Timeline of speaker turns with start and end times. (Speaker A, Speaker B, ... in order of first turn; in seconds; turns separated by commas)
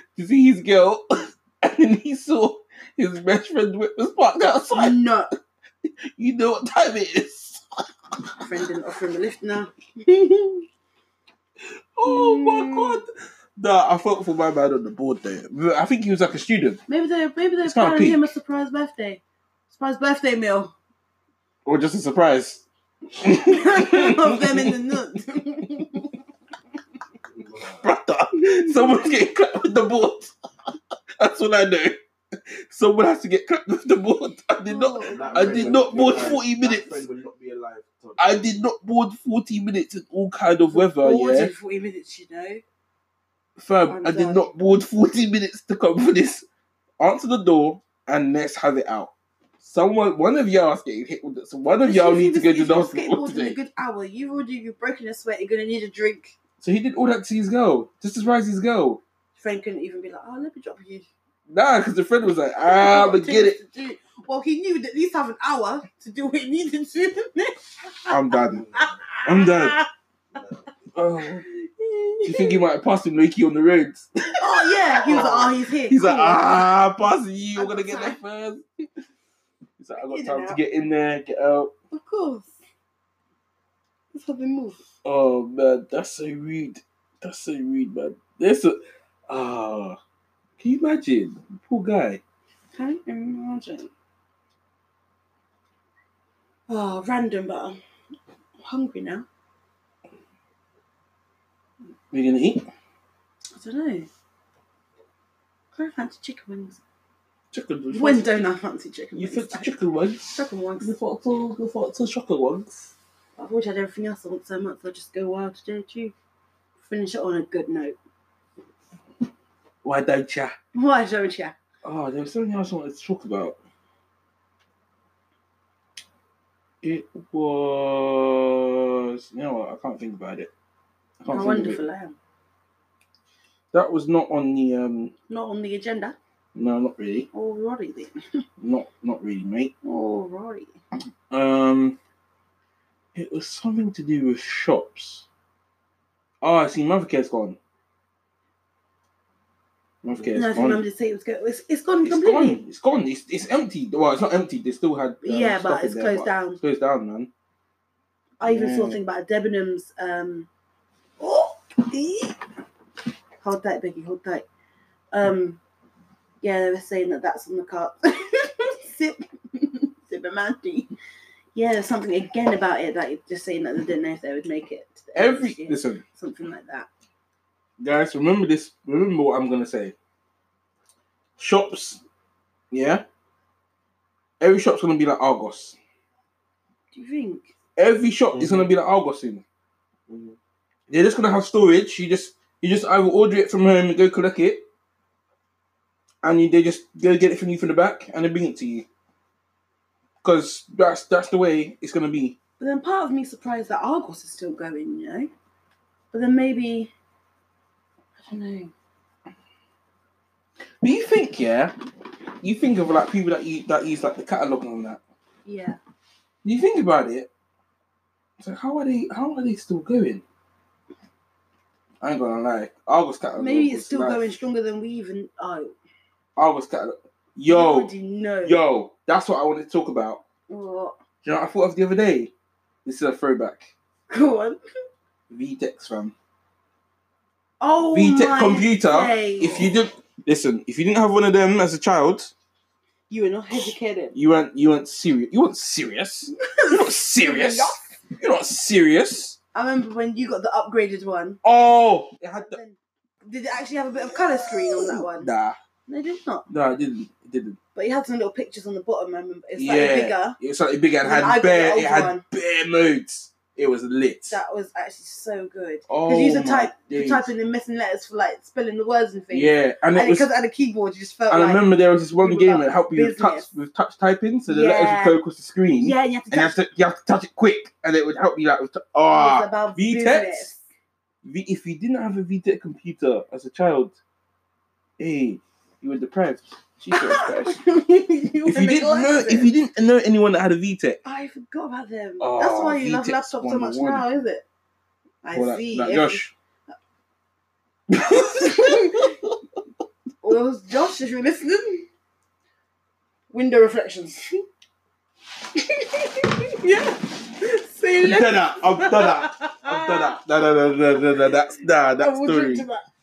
Speaker A: 0.1-5.0, Speaker B: 4.7-5.3, Speaker A: 6.2-7.6, Speaker B: 8.4-10.7, Speaker A: 11.6-16.8, Speaker B: 12.1-13.0, Speaker B: 16.9-20.8, Speaker A: 17.6-18.3, Speaker A: 21.6-22.6, Speaker A: 23.2-25.0, Speaker B: 23.2-26.2, Speaker C: 27.3-27.9, Speaker A: 27.8-30.3, Speaker B: 28.3-29.1, Speaker A: 31.2-37.0, Speaker B: 34.7-36.1, Speaker C: 35.0-38.5, Speaker A: 38.2-41.5, Speaker B: 40.7-42.6, Speaker A: 43.6-46.5, Speaker B: 43.9-44.5, Speaker A: 47.0-53.6, Speaker B: 51.8-56.4, Speaker A: 56.6-59.0, Speaker B: 59.4-61.1, Speaker A: 61.5-63.6, Speaker B: 62.6-68.2, Speaker A: 68.1-68.7, Speaker C: 68.5-69.0, Speaker B: 68.7-69.9, Speaker A: 69.2-69.8, Speaker C: 70.3-70.7, Speaker A: 71.0-71.5, Speaker B: 71.4-72.6, Speaker A: 72.2-78.6, Speaker B: 74.4-76.7, Speaker B: 77.6-78.2, Speaker A: 79.8-81.7, Speaker B: 80.0-80.6, Speaker B: 81.9-82.6, Speaker B: 84.1-84.8, Speaker A: 85.0-90.0, Speaker A: 90.6-92.2, Speaker B: 92.7-93.9, Speaker B: 96.7-97.8, Speaker B: 98.6-99.3, Speaker A: 102.1-102.7, Speaker B: 103.5-104.1, Speaker B: 105.7-106.8, Speaker A: 107.5-108.5, Speaker B: 107.9-109.7, Speaker A: 109.1-112.9, Speaker B: 110.3-111.0, Speaker B: 113.4-116.1, Speaker B: 116.8-118.0, Speaker A: 119.8-120.5, Speaker B: 120.7-121.6, Speaker A: 121.8-123.6, Speaker A: 126.8-130.5, Speaker A: 131.2-131.8, Speaker B: 131.3-132.2, Speaker A: 133.7-135.1, Speaker B: 135.3-136.2, Speaker A: 136.6-137.3, Speaker B: 137.3-138.2, Speaker A: 138.6-139.7, Speaker B: 139.8-140.8, Speaker A: 141.3-142.0, Speaker A: 143.2-145.3, Speaker A: 146.4-147.6, Speaker A: 150.0-150.8, Speaker B: 150.3-152.6, Speaker A: 152.0-157.3, Speaker B: 155.2-156.6, Speaker B: 158.4-160.5, Speaker A: 158.4-159.0, Speaker B: 161.2-162.4, Speaker B: 163.4-164.5, Speaker B: 165.1-165.6, Speaker B: 166.4-170.9, Speaker B: 171.6-176.9, Speaker A: 175.2-176.0, Speaker A: 177.8-179.9, Speaker A: 181.4-182.0, Speaker A: 182.7-183.1, Speaker A: 184.4-185.8, Speaker B: 186.9-187.5, Speaker A: 187.8-189.4, Speaker C: 188.3-188.7, Speaker C: 190.1-190.4, Speaker A: 190.9-194.7, Speaker A: 196.2-198.9, Speaker A: 200.2-202.4, Speaker B: 202.6-205.3, Speaker B: 206.1-206.9, Speaker B: 208.2-208.7, Speaker A: 210.8-211.7, Speaker A: 212.4-215.0, Speaker B: 215.4-215.8, Speaker A: 216.4-217.3, Speaker A: 218.4-220.2, Speaker A: 222.0-224.2, Speaker B: 223.4-225.7, Speaker A: 226.4-227.9, Speaker B: 227.5-228.6, Speaker A: 228.4-230.2, Speaker B: 230.5-231.0, Speaker A: 231.2-232.3, Speaker A: 232.8-233.7, Speaker B: 234.1-234.6, Speaker A: 235.3-236.2, Speaker B: 237.6-239.7, Speaker A: 237.9-242.3, Speaker B: 243.1-244.2, Speaker A: 243.5-249.4, Speaker B: 246.3-248.0, Speaker B: 249.5-251.4, Speaker A: 251.4-252.6, Speaker B: 252.3-255.3, Speaker A: 254.4-255.6, Speaker B: 255.9-256.5, Speaker A: 256.5-257.6, Speaker B: 257.8-260.4, Speaker A: 259.6-264.4, Speaker B: 261.0-262.2, Speaker B: 264.3-271.6, Speaker A: 265.9-267.3, Speaker A: 269.3-270.3, Speaker A: 271.3-280.5, Speaker B: 272.2-273.5, Speaker B: 274.5-275.2, Speaker B: 275.8-276.6, Speaker B: 279.1-280.6, Speaker A: 281.2-284.0, Speaker A: 285.0-287.6, Speaker B: 286.9-289.5, Speaker A: 288.5-291.0, Speaker B: 291.0-294.4, Speaker A: 292.2-294.1, Speaker B: 295.2-296.2, Speaker A: 295.3-296.3, Speaker A: 297.9-299.4, Speaker B: 298.1-299.1, Speaker B: 300.2-301.9, Speaker B: 303.3-304.3, Speaker B: 305.6-310.2, Speaker A: 308.0-312.7, Speaker B: 311.9-312.8